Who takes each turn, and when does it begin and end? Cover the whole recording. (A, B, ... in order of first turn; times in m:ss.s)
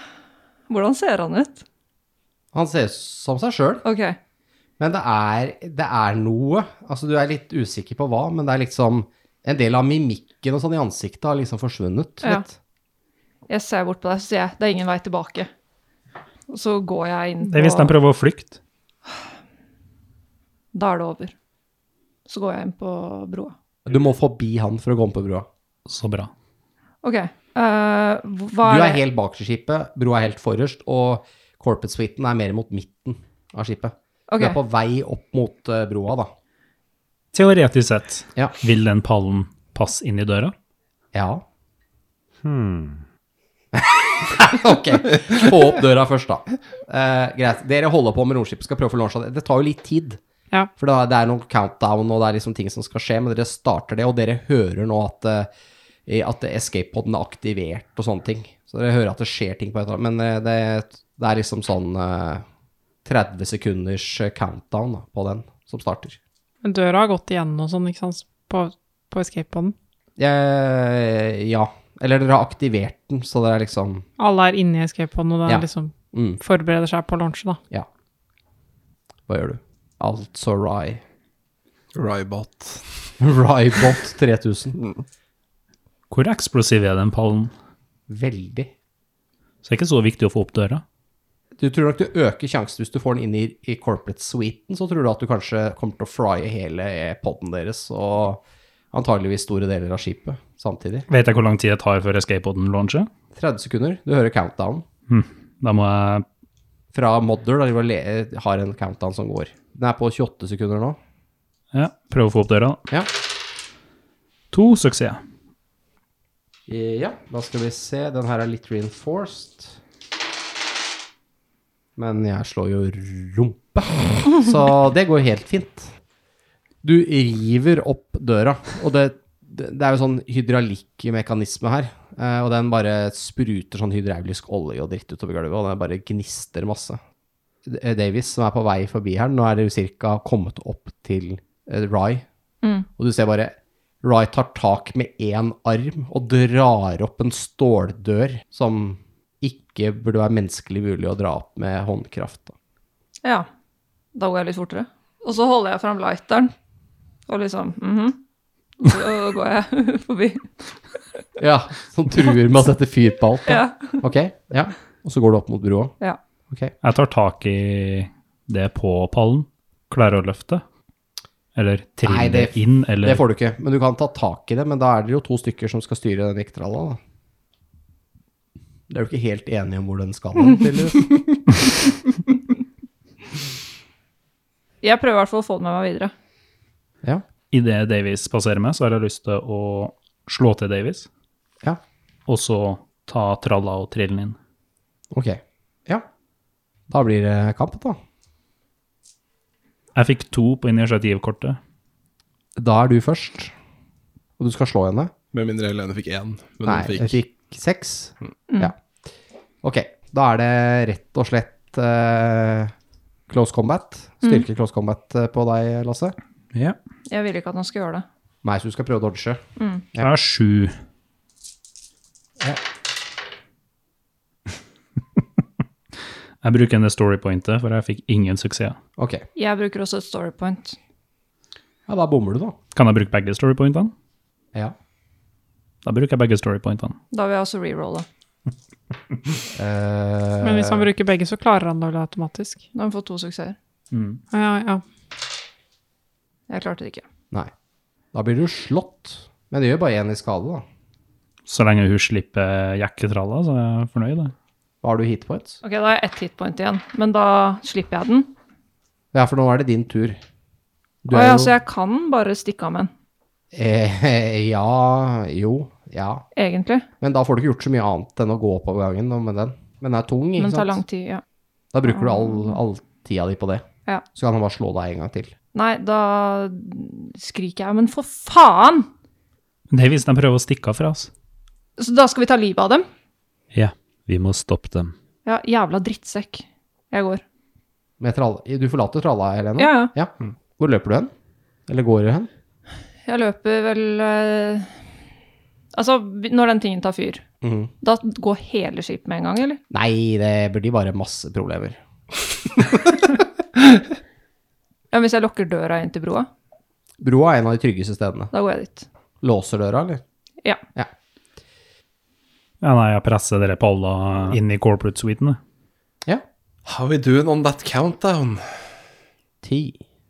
0:00.7-0:01.6 A
0:02.5-0:03.8 B
0:03.8-0:04.2 A
0:04.8-0:12.5 B
0:13.5-0:15.5 A
0:16.5-0:18.0 A
0:17.4-0:18.6 C
0:20.7-0:21.3 A
0:22.3-0:23.5 A
0:23.9-0:25.5 B
0:25.9-0:26.3 C
0:27.0-0:29.0 A
0:28.6-0:36.3 B
0:34.3-0:34.6 A
0:37.3-0:40.5 C
0:41.1-0:41.4 B
0:42.4-0:43.0 D
0:43.7-0:50.2 B
0:50.8-0:55.5 B
0:56.1-1:02.4 B
1:03.0-1:06.2 B
1:06.6-1:09.8 E
1:10.2-1:14.1 B
1:14.2-1:17.6 E
1:15.4-1:16.4 B
1:19.3-1:21.0 B
1:21.9-1:22.9 F
1:23.2-1:24.8 B
1:26.1-1:27.5 C
1:28.1-1:28.7 B
1:29.6-1:30.8 C
1:31.6-1:41.1 B
1:41.1-1:43.1 C
1:43.4-1:44.8 B
1:45.1-1:46.3 C
1:46.9-1:51.0 B
1:51.7-1:52.8 C
1:54.5-1:55.2 C
1:56.7-1:59.8 B
2:02.0-2:05.9 B
2:06.8-2:17.0 B
2:17.6-2:22.2 B
2:23.0-2:32.6 B
2:34.2-2:36.5 A
2:37.3-2:38.2 A
2:38.8-2:40.7 A
2:41.4-2:45.9 B
2:43.5-2:44.0 A
2:46.8-2:50.6 C
2:51.6-2:53.2 C
2:52.0-2:57.0 B
2:58.9-3:01.1 B
3:04.8-3:06.1 A
3:07.5-3:11.1 C
3:12.3-3:14.4 C
3:15.1-3:16.1 B
3:16.9-3:18.0 B
3:20.0-3:21.6 C
3:22.6-3:23.5 B
3:24.4-3:25.1 B
3:25.3-3:27.2 F
3:26.6-3:28.7 B
3:29.6-3:32.7 B
3:33.3-3:36.2 B
3:37.1-3:38.1 A
3:38.4-3:39.4 B
3:39.6-3:39.9 A
3:40.0-3:40.8 C
3:46.4-3:48.8 C
3:49.0-3:49.3 B
3:49.4-3:50.8 A
3:51.9-3:52.6 B
3:52.8-3:53.9 C
3:55.8-3:57.0 C
3:57.1-3:58.1 A
3:59.5-4:00.9 B
4:00.4-4:02.6 E
4:02.7-4:03.6 A
4:03.9-4:04.2 C
4:04.3-4:04.8 E
4:06.5-4:07.0 A
4:08.1-4:10.6 B
4:11.5-4:14.3 C
4:14.8-4:15.6 B
4:15.6-4:18.3 A
4:19.1-4:20.2 B
4:21.0-4:21.5 B
4:21.1-4:22.9 A
4:23.5-4:26.2 B
4:26.4-4:26.9 A
4:27.0-4:30.8 B
4:30.4-4:31.2 A
4:31.7-4:35.3 B
4:31.9-4:32.6 A
4:35.6-4:38.9 A
4:39.7-4:41.1 C
4:41.8-4:42.9 A
4:43.5-4:45.0 D
4:45.2-4:47.2 A
4:48.0-4:51.1 B
4:49.6-4:49.9 A
4:51.7-4:52.3 B
4:53.1-4:54.8 A
4:55.7-4:57.2 A
4:57.4-4:57.7 B
4:57.8-4:59.6 A
4:59.7-5:01.8 B
5:02.4-5:03.2 B
5:04.9-5:06.3 A
5:07.0-5:08.3 B
5:08.3-5:08.9 A
5:09.2-5:10.0 B
5:12.6-5:15.4 C
5:16.7-5:18.5 F
5:19.4-5:19.8 B